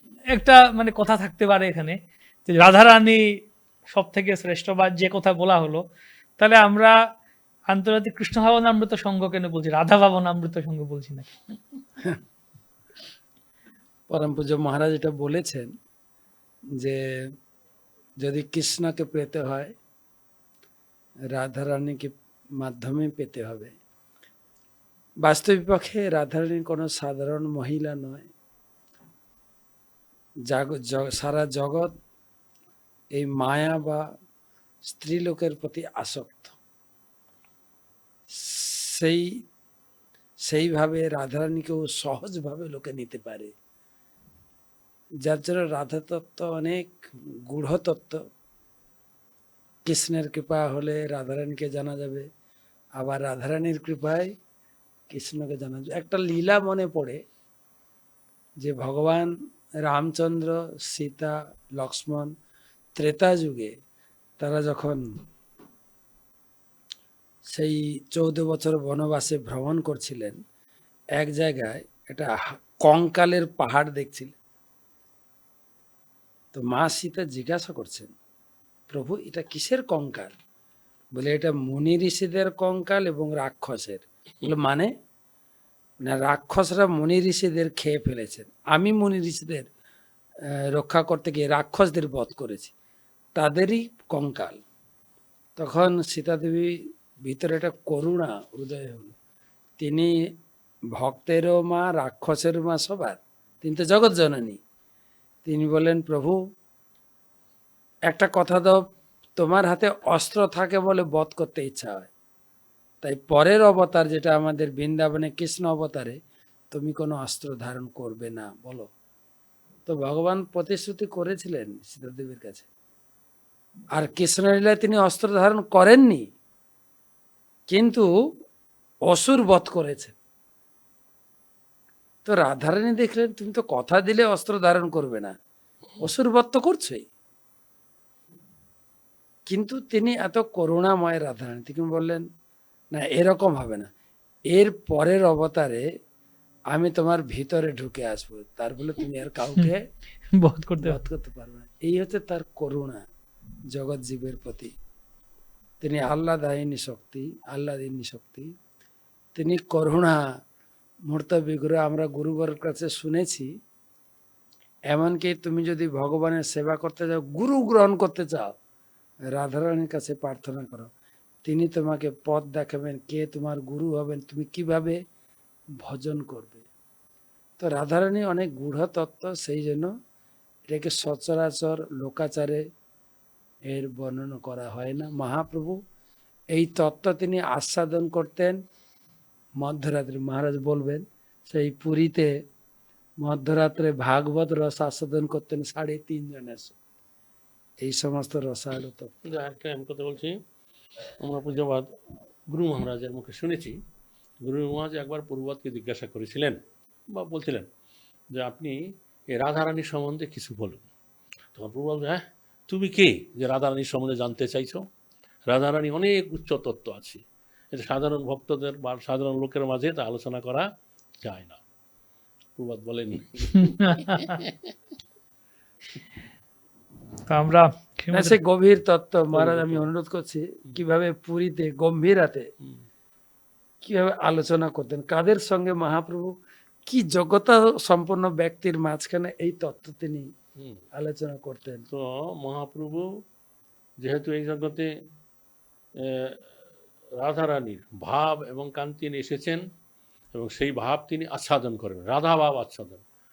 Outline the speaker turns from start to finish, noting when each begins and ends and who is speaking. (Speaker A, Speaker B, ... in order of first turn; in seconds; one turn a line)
Speaker A: 0.3-3.2
Speaker A: 3.9-5.8
Speaker A: 6.4-6.9
Speaker A: 7.7-11.3
Speaker B: 14.1-15.7
Speaker B: 18.2-19.7
Speaker B: 21.3-23.7
Speaker B: 25.2-28.2
Speaker B: 30.5-31.9
Speaker B: 33.1-34.0
Speaker B: 34.8-36.5
Speaker B: 38.3-39.3
Speaker B: 40.5-43.5
Speaker B: 45.2-47.0
Speaker B: 47.5-48.2
Speaker B: 49.9-52.2
Speaker B: 53.0-54.3
Speaker B: 55.1-57.2
Speaker B: 58.6-59.3
Speaker B: 59.8-62.3
Speaker B: 63.0-63.7
Speaker B: 64.4-65.0
Speaker B: 67.5-70.4
Speaker B: 71.2-72.3
Speaker B: 72.8-74.3
Speaker B: 76.5-78.1
Speaker B: 78.9-80.3
Speaker B: 81.2-84.9
Speaker B: 86.0-89.7
Speaker B: 90.7-92.7
Speaker B: 93.3-94.6
Speaker B: 95.6-99.2
Speaker B: 99.8-100.1
Speaker B: 101.0-104.6
Speaker B: 105.4-106.4
Speaker B: 108.1-108.8
Speaker B: 109.4-112.1
Speaker B: 113.0-116.2
Speaker B: 116.7-118.9
Speaker B: 119.8-122.7
Speaker B: 124.0-126.2
Speaker B: 127.7-128.0
Speaker B: 129.1-130.2
Speaker B: 132.2-135.3
Speaker B: 136.0-137.0
Speaker B: 139.5-142.3
Speaker B: 142.9-143.9
Speaker B: 144.5-145.8
Speaker B: 146.7-149.8
Speaker A: 150.4-151.0
Speaker B: 150.8-153.0
Speaker B: 153.7-154.7
Speaker B: 155.8-158.5
Speaker B: 159.3-160.2
Speaker B: 161.1-163.5
Speaker B: 164.9-168.5
Speaker B: 169.3-170.9
Speaker B: 171.4-175.0
Speaker B: 175.8-176.6
Speaker B: 177.6-179.9
Speaker B: 180.7-182.6
Speaker B: 183.7-185.8
Speaker B: 186.5-188.6
Speaker B: 189.6-192.3
Speaker B: 193.2-196.7
Speaker B: 197.8-199.1
Speaker C: 199.3-200.4
Speaker C: 201.2-201.9
Speaker C: 202.5-203.8
Speaker C: 204.4-206.6
Speaker C: 207.1-207.7
Speaker C: 208.3-208.8
Speaker C: 209.3-210.8
Speaker C: 211.5-214.8
Speaker C: 215.5-217.2
Speaker C: 217.7-220.7
Speaker C: 221.2-221.6
Speaker C: 222.6-224.5
Speaker A: 223.6-224.3
Speaker A: 227.3-228.3
Speaker B: 228.1-232.4
Speaker C: 229.3-229.8
Speaker B: 233.8-236.3
Speaker B: 236.8-240.3
Speaker B: 240.9-241.8
Speaker C: 241.9-243.0
Speaker C: 244.0-244.9
Speaker C: 246.0-246.4
Speaker C: 247.2-249.6
Speaker C: 250.3-253.0